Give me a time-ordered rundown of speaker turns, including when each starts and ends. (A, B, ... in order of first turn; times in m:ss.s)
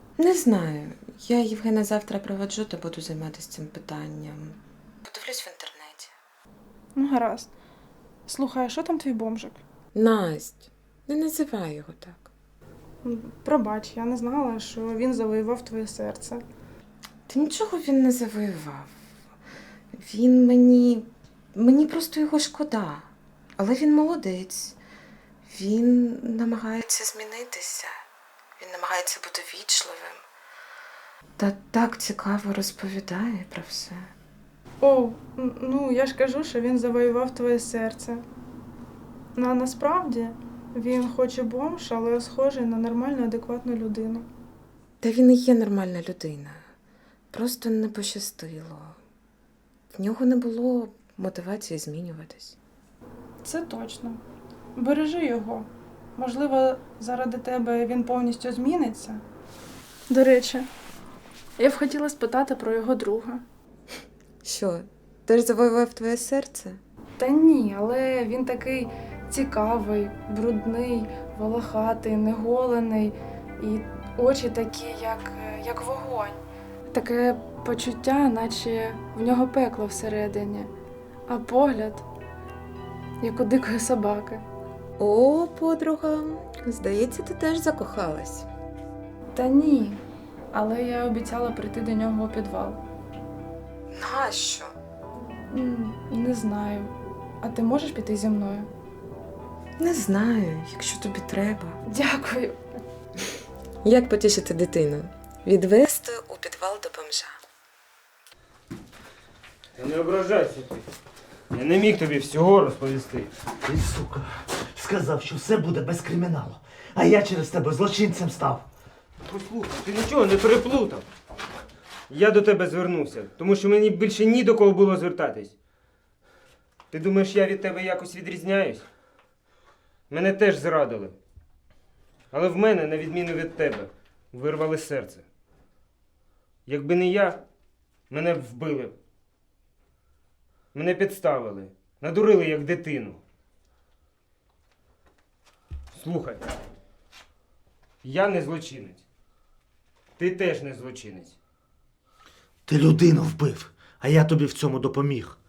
0:00.2-0:06.1 A
0:07.0-0:07.5 B
0:08.2-0:09.6 B
0:09.9-0:12.3 A
0:13.0-0:16.4 B
0:17.3-0:18.9 A
0:19.9-0:24.8 A
0:25.4-0:28.0 A
0:28.6-0:30.2 A
0:31.4-0:34.1 A
0:34.8-0:38.2 B
0:39.3-0:44.3 B
0:45.0-0:46.6 A
0:47.3-0:49.0 A
0:49.9-0:52.6 A
0:53.4-0:54.2 B
0:54.8-0:59.2 B
1:00.1-1:00.7 B
1:01.6-1:03.4 B
1:04.4-1:06.8 A
1:07.2-1:20.7 B
1:21.3-1:22.0 B
1:23.2-1:24.4 B
1:25.0-1:28.5 A
1:29.3-1:30.0 B
1:30.5-1:32.8 B
1:33.9-1:34.7 A
1:35.5-1:38.7 B
1:39.8-1:41.8 A
1:41.8-1:42.6 B
1:43.8-1:47.3 A
1:49.8-1:50.9 C
1:51.5-1:53.3 C
1:53.6-1:58.6 D
1:59.2-2:01.1 C
2:02.1-2:05.5 C
2:06.9-2:08.8 C
2:10.1-2:11.2 C
2:12.3-2:15.2 C
2:16.6-2:17.4 C
2:18.1-2:18.9 C
2:20.7-2:23.2 C
2:25.9-2:26.4 C
2:28.0-2:29.0 C
2:30.2-2:31.3 C
2:32.7-2:35.4 D